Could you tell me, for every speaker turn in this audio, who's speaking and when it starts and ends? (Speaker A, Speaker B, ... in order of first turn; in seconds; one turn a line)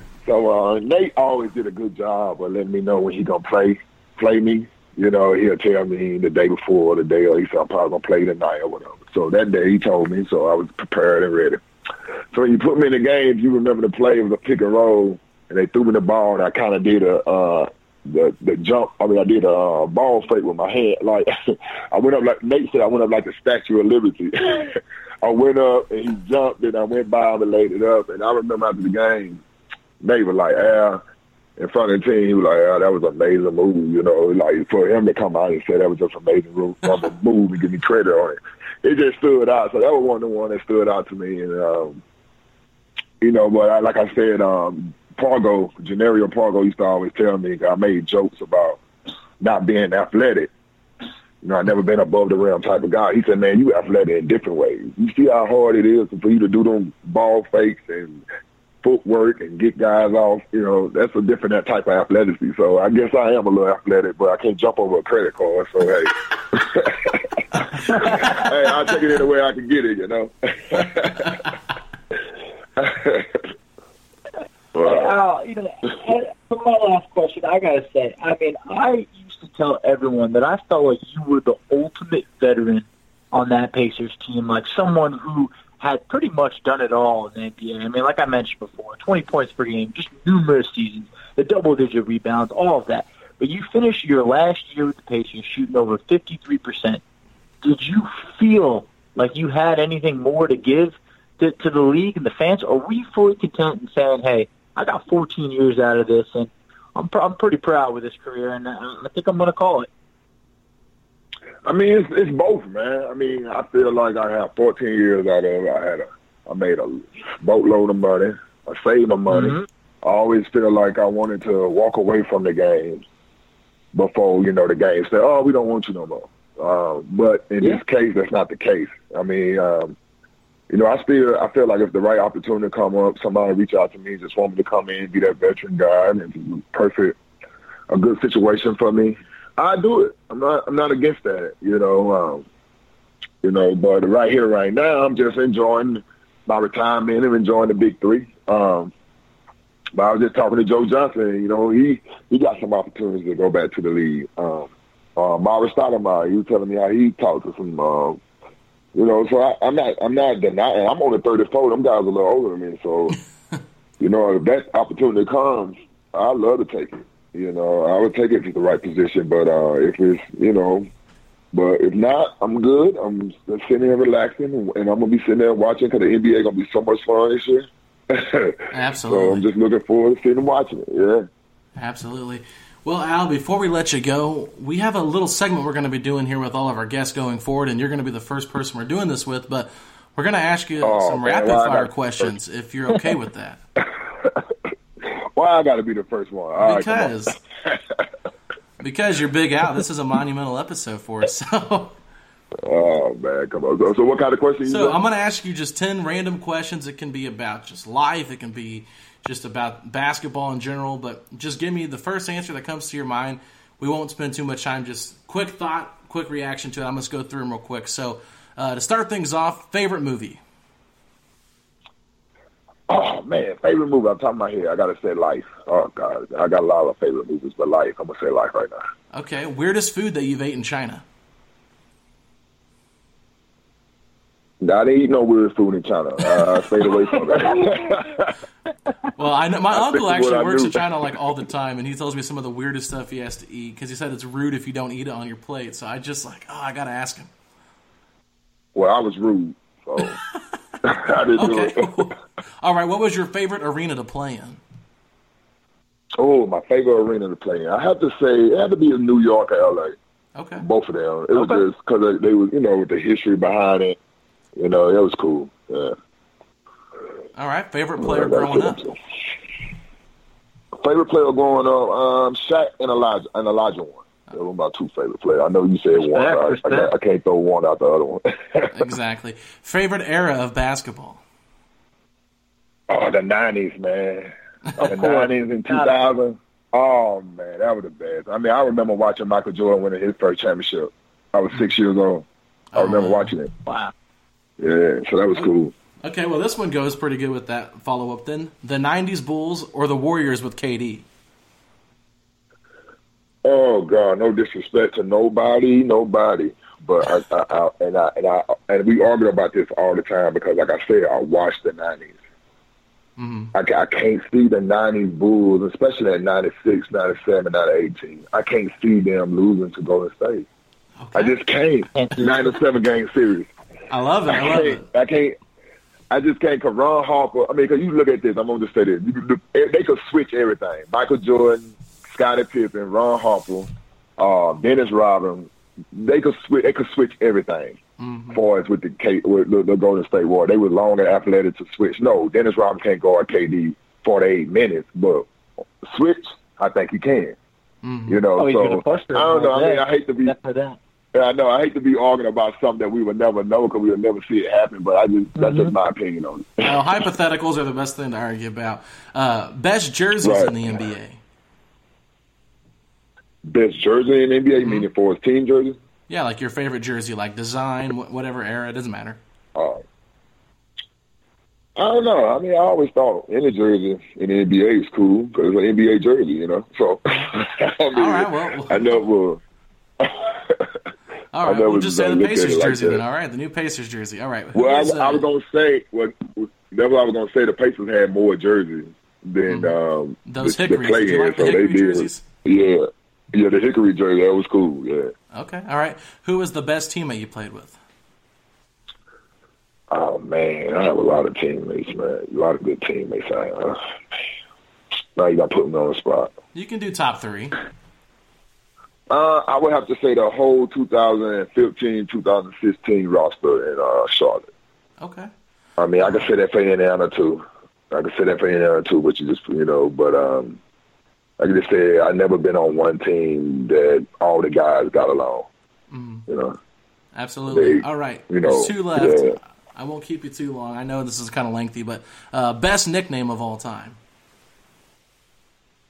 Speaker A: 0.2-11.6
Speaker A: 12.3-29.4
Speaker A: 30.0-31.0
Speaker A: 31.6-42.0
Speaker A: 43.2-48.8
Speaker A: 49.4-50.5
Speaker A: 51.4-58.2
Speaker A: 58.8-71.4
Speaker A: 72.8-73.5
Speaker A: 74.7-75.1
Speaker B: 74.8-97.0
Speaker B: 97.6-109.9
Speaker A: 111.6-123.0
Speaker B: 119.3-119.6
Speaker A: 123.9-129.9
Speaker A: 130.7-137.2
Speaker A: 137.9-142.4
Speaker A: 143.4-148.9
Speaker A: 149.9-158.2
Speaker A: 158.9-163.2
Speaker A: 164.0-170.9
Speaker A: 171.5-181.3
Speaker C: 178.7-179.4
Speaker C: 181.8-193.6
Speaker A: 190.8-192.3
Speaker A: 194.2-194.4
Speaker A: 195.0-198.0
Speaker C: 196.6-197.4
Speaker C: 198.8-201.9
Speaker A: 202.7-205.0
Speaker C: 204.7-220.4
Speaker A: 222.9-228.8
Speaker C: 229.1-231.0
Speaker A: 234.6-238.3
Speaker C: 239.2-247.3
Speaker A: 239.7-240.8
Speaker A: 248.7-250.2
Speaker A: 250.8-251.9
Speaker C: 251.3-254.6
Speaker A: 256.2-259.9
Speaker C: 260.4-260.6
Speaker A: 260.6-264.0
Speaker B: 261.3-261.6
Speaker A: 264.6-265.9
Speaker C: 267.4-268.8
Speaker A: 268.0-268.9
Speaker A: 270.8-278.9
Speaker B: 275.9-276.9
Speaker C: 278.7-281.2
Speaker A: 282.9-284.3
Speaker B: 284.8-285.9
Speaker A: 284.8-293.5
Speaker C: 292.7-293.3
Speaker B: 293.6-293.9
Speaker A: 294.6-295.7
Speaker C: 296.0-301.0
Speaker A: 303.4-312.2
Speaker C: 313.2-313.5
Speaker A: 313.5-320.4
Speaker C: 321.0-321.4
Speaker A: 321.1-323.5
Speaker B: 321.9-322.3
Speaker C: 323.9-324.8
Speaker A: 324.3-325.4
Speaker A: 326.1-337.8
Speaker C: 338.0-338.4
Speaker A: 338.3-345.3
Speaker A: 345.8-347.4
Speaker C: 347.8-348.2
Speaker A: 348.1-350.3
Speaker B: 348.4-350.8
Speaker A: 351.1-357.0
Speaker B: 355.4-355.7
Speaker C: 356.6-361.2
Speaker A: 360.2-360.9
Speaker A: 363.4-365.8
Speaker C: 364.6-364.9
Speaker C: 366.1-369.2
Speaker A: 369.5-369.8
Speaker A: 371.8-379.4
Speaker C: 377.9-379.0
Speaker A: 380.0-380.7
Speaker C: 381.3-385.2
Speaker A: 381.4-383.0
Speaker A: 384.5-395.1
Speaker C: 389.5-389.7
Speaker C: 390.2-392.2
Speaker C: 395.3-397.8
Speaker A: 399.9-403.8
Speaker A: 405.1-406.3
Speaker C: 406.5-407.6
Speaker A: 409.1-414.5
Speaker C: 415.0-415.3
Speaker A: 415.8-420.6
Speaker C: 416.0-416.3
Speaker A: 421.4-425.5
Speaker C: 425.9-426.2
Speaker A: 426.3-426.6
Speaker C: 427.1-434.0
Speaker A: 427.5-429.4